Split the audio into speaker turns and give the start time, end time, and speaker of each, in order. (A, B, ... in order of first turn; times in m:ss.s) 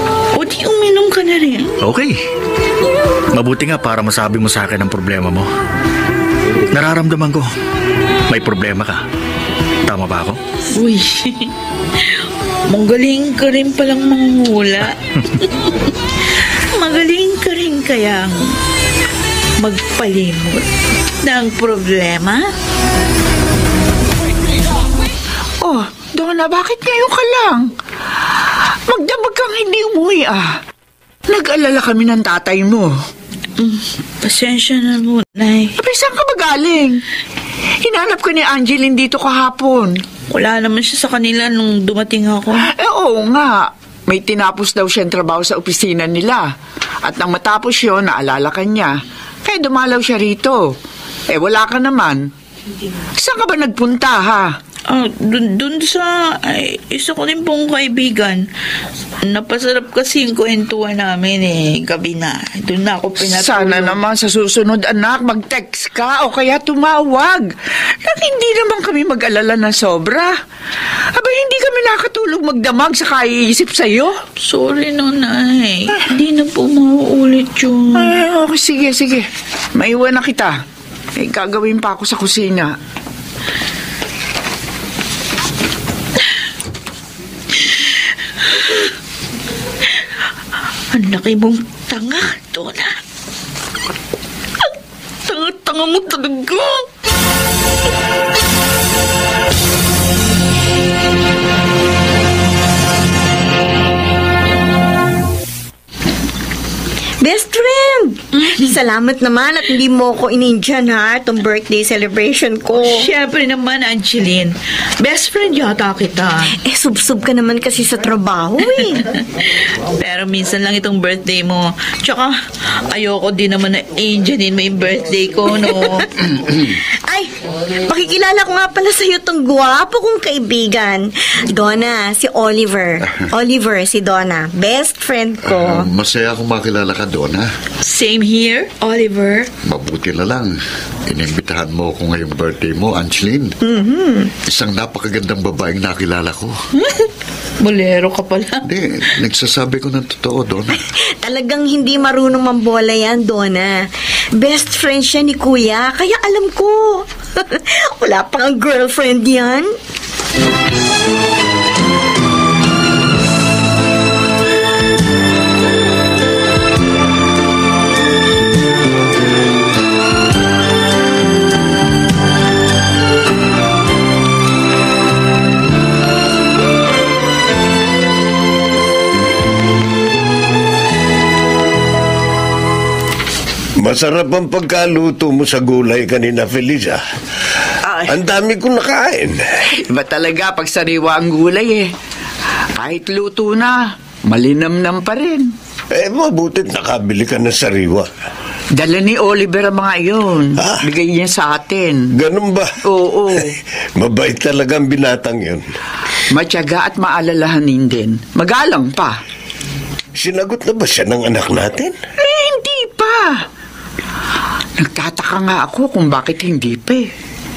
0:00.3-0:01.8 A
0:01.8-0:02.2 B
0:03.3-0:05.5 B
0:06.7-0:07.5 B
0:08.3-0:09.0 B
0:09.8-0:10.4 B
0:10.7-0:11.5 A
0:12.7-0:15.8 A
0:16.6-0:18.6 A
0:19.6-0:20.6 A
0:21.2-0:22.4 A
0:25.6-0:27.7 C
0:28.9-0:30.6 C
0:31.3-0:32.9 C
0:33.6-0:35.7 A
0:35.8-0:37.0 C
0:37.8-0:40.0 C
0:40.3-0:42.7 A
0:42.6-0:46.5 C
0:47.0-0:50.7 C
0:51.3-0:52.3 C
0:53.2-0:54.5 C
0:54.9-0:58.4 A
0:59.2-1:04.0 A
1:03.2-1:10.3 C
1:11.1-1:14.2 C
1:14.4-1:18.1 A
1:17.9-1:20.5 C
1:21.2-1:22.7 C
1:27.6-1:27.9 A
1:28.5-1:28.9 A
1:30.9-1:33.0 A
1:35.2-1:36.8 A
1:47.2-1:53.0 D
1:48.4-1:48.7 A
1:52.8-1:56.6 A
1:56.6-1:59.0 D
1:58.6-2:02.3 A
2:02.9-2:06.2 A
2:06.8-2:07.3 D
2:07.8-2:15.8 D
2:15.4-2:17.5 E
2:17.8-2:19.5 A
2:19.6-2:23.7 E
2:23.7-2:24.3 D
2:24.4-2:26.6 E
2:27.6-2:28.7 A
2:28.6-2:30.8 E
2:31.2-2:33.8 D
2:34.4-2:39.7 D
3:03.8-3:07.0 F
3:07.8-3:08.2 C
3:08.1-3:09.4 F
3:09.7-3:11.9 C
3:12.7-3:15.5 C
3:15.9-3:18.1 F
3:18.8-3:22.1 C
3:22.1-3:22.7 F
3:22.8-3:23.6 C
3:24.0-3:25.6 F
3:26.3-3:29.2 C
3:30.2-3:32.0 F
3:32.2-3:33.4 C
3:34.8-3:37.1 C